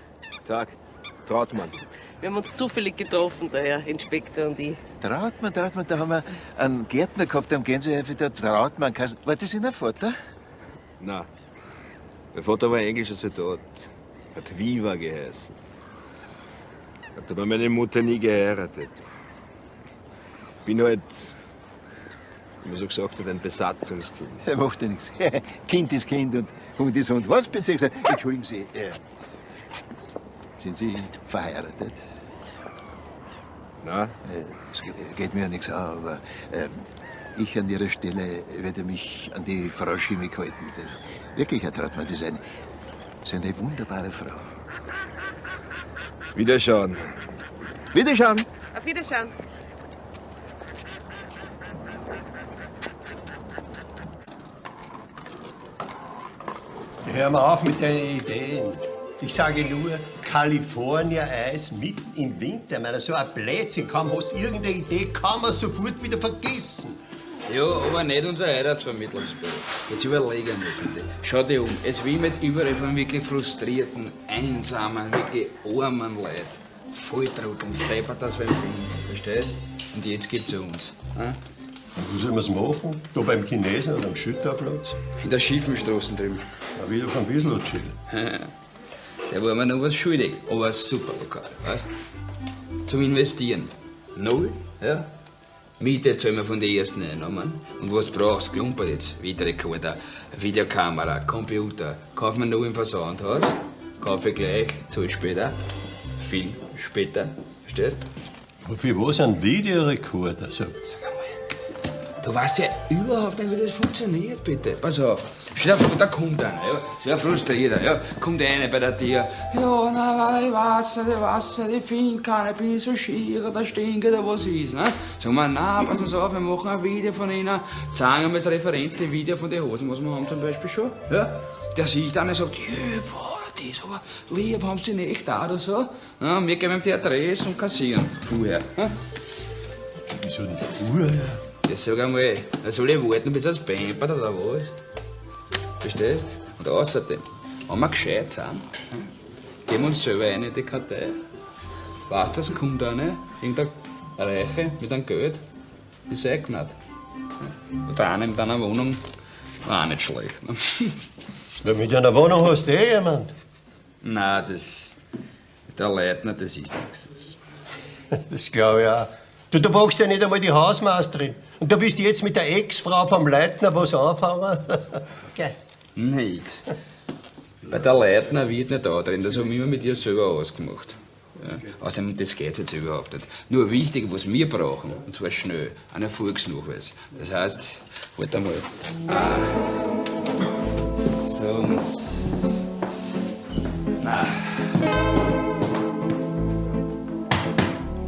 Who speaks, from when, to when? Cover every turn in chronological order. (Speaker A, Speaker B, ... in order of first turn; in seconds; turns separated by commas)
Speaker A: 0.5-1.8, Speaker B: 2.2-4.8, Speaker C: 5.0-10.2, Speaker A: 11.0-11.3, Speaker A: 12.3-15.5, Speaker A: 17.2-19.1, Speaker A: 20.6-21.4, Speaker A: 22.6-24.4, Speaker C: 24.4-29.0, Speaker C: 30.6-32.0, Speaker A: 33.8-34.2, Speaker C: 34.3-42.4, Speaker C: 43.2-44.5, Speaker A: 46.4-47.1, Speaker C: 47.9-48.5, Speaker B: 48.7-49.3, Speaker D: 57.0-67.0, Speaker E: 67.5-81.4, Speaker D: 82.0-85.0, Speaker E: 85.2-86.5, Speaker D: 86.8-88.0, Speaker E: 88.1-88.5, Speaker E: 89.3-91.9, Speaker E: 92.9-95.1, Speaker E: 95.8-105.6, Speaker E: 106.2-108.0, Speaker D: 108.7-110.8, Speaker E: 110.9-111.2, Speaker E: 112.2-139.0, Speaker D: 140.2-141.4, Speaker E: 141.7-144.8, Speaker E: 145.8-149.1, Speaker E: 149.7-151.2, Speaker E: 152.1-155.4, Speaker E: 156.1-156.8, Speaker E: 157.8-159.1, Speaker E: 159.6-161.0, Speaker D: 161.6-163.3, Speaker E: 164.0-164.9, Speaker E: 165.7-167.4, Speaker D: 168.2-175.6, Speaker E: 176.0-176.6, Speaker E: 177.7-189.8, Speaker E: 190.9-192.5, Speaker E: 194.0-194.7